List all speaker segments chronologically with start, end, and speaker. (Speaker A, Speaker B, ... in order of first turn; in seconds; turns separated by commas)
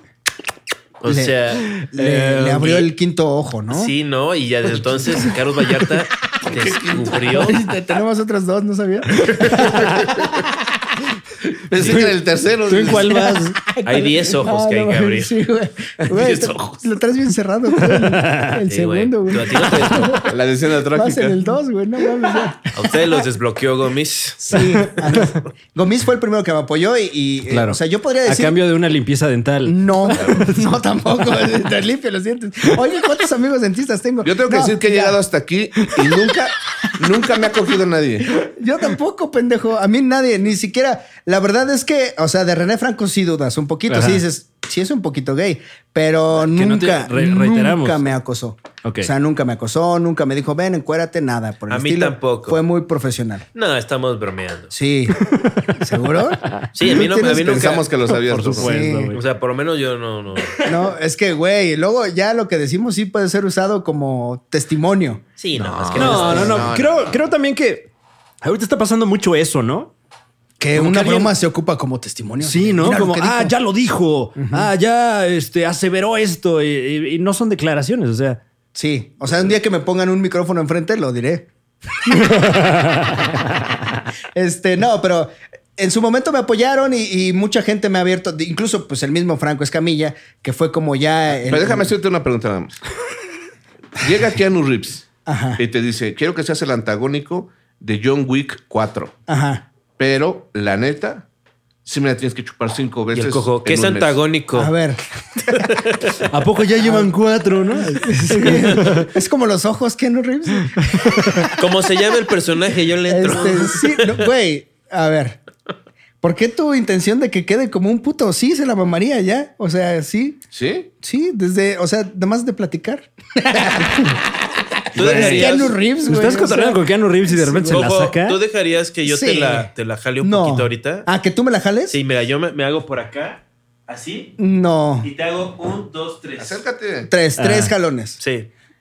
Speaker A: 1.0-1.7, Speaker B: 1.1-1.4, Speaker C: 1.8-2.7, Speaker B: 1.9-3.9, Speaker A: 2.5-2.9, Speaker A: 3.7-7.6, Speaker D: 6.5-7.5, Speaker B: 7.4-9.8, Speaker C: 9.3-10.0, Speaker D: 9.8-10.1, Speaker D: 11.7-13.3, Speaker A: 11.8-12.1, Speaker C: 11.8-13.6, Speaker B: 13.0-20.4, Speaker A: 13.8-15.3, Speaker D: 16.0-16.8, Speaker C: 17.8-18.6, Speaker A: 18.7-20.3, Speaker D: 20.3-21.4, Speaker B: 20.9-22.9, Speaker A: 22.7-25.4, Speaker B: 24.4-28.6, Speaker C: 27.5-30.6, Speaker B: 29.6-35.2, Speaker D: 34.2-38.4, Speaker B: 38.3-53.5, Speaker C: 43.9-44.2, Speaker C: 46.3-48.1, Speaker C: 48.8-49.1, Speaker A: 51.7-52.6, Speaker A: 53.5-54.7, Speaker B: 54.7-56.9, Speaker C: 55.3-55.7, Speaker C: 56.4-56.7, Speaker A: 56.7-57.9, Speaker D: 56.9-58.7, Speaker C: 58.2-59.2, Speaker B: 58.5-59.1, Speaker A: 59.1-60.7, Speaker B: 60.6-65.2, Speaker A: 65.4-66.7, Speaker D: 65.6-67.2, Speaker B: 66.0-66.7, Speaker C: 66.0-67.9, Speaker C: 68.4-69.9, Speaker B: 70.6-73.5, Speaker C: 70.7-71.3, Speaker C: 72.4-78.4, Speaker B: 74.4-74.7, Speaker B: 78.8-81.5, Speaker C: 82.1-83.6, Speaker B: 84.3-91.9, Speaker D: 91.5-92.8, Speaker D: 94.0-99.1, Speaker B: 95.3-95.6, Speaker B: 99.3-99.6, Speaker D: 100.0-101.3, Speaker D: 101.8-104.2, Speaker A: 103.1-104.7, Speaker B: 104.5-105.0, Speaker A: 105.4-106.2, Speaker C: 106.2-109.1, Speaker B: 106.8-107.1, Speaker B: 108.0-111.5, Speaker A: 111.5-114.2, Speaker B: 113.1-115.4, Speaker B: 116.2-120.4, Speaker D: 120.5-120.9, Speaker B: 121.0-124.2, Speaker A: 124.9-125.8, Speaker C: 125.0-128.4, Speaker B: 125.0-127.8, Speaker A: 127.7-131.1, Speaker B: 129.0-129.7, Speaker B: 130.2-132.0, Speaker A: 131.9-134.3, Speaker B: 134.4-135.1, Speaker A: 135.0-136.6, Speaker D: 136.4-137.1, Speaker B: 137.1-138.2, Speaker C: 137.4-137.7, Speaker A: 138.2-138.5